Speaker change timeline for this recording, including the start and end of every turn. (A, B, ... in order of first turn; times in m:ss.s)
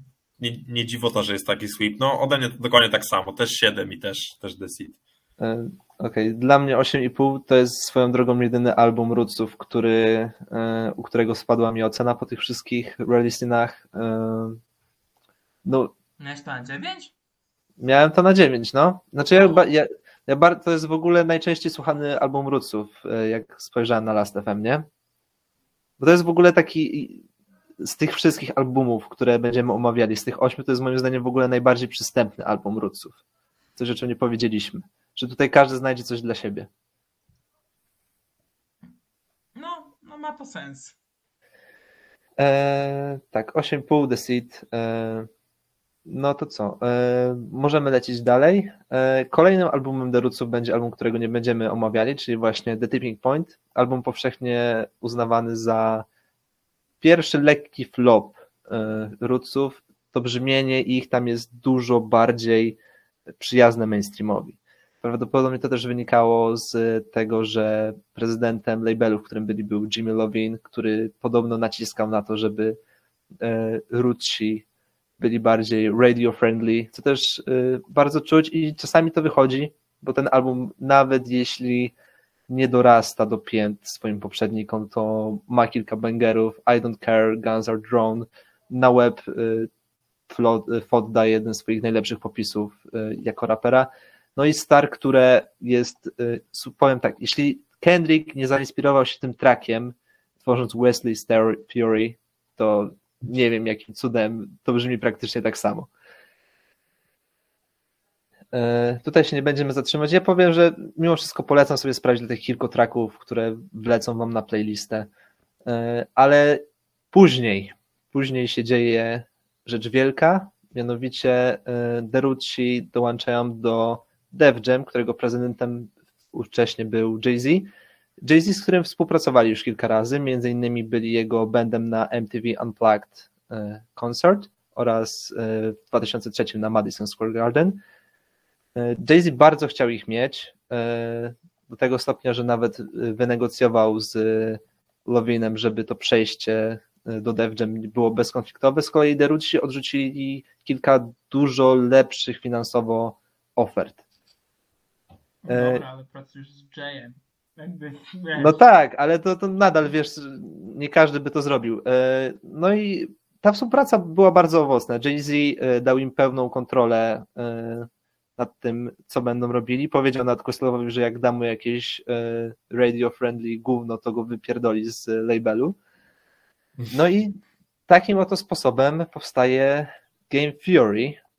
0:00.4-0:05.0 A
0:05.4-0:14.6 B
0:15.6-0:15.9 B
0:16.2-0:17.1 C
0:17.8-0:24.9 B
0:19.3-0:19.6 C
0:26.0-0:27.2 B
0:27.8-0:33.2 B
0:33.8-0:36.7 B
0:39.6-0:41.0 C
0:42.4-0:45.3 B
0:46.0-0:56.0 B
0:57.0-1:02.8 B
1:03.3-1:12.8 B
1:13.4-1:14.6 B
1:15.2-1:21.9 B
1:22.5-1:29.7 B
1:30.3-1:45.9 B
1:48.5-1:55.1 B
1:55.6-2:07.7 B
2:08.2-2:17.8 B
2:18.7-2:34.0 B
2:35.4-2:38.6 C
2:35.5-2:35.8 B
2:38.4-2:55.7 B
2:56.9-3:01.2 B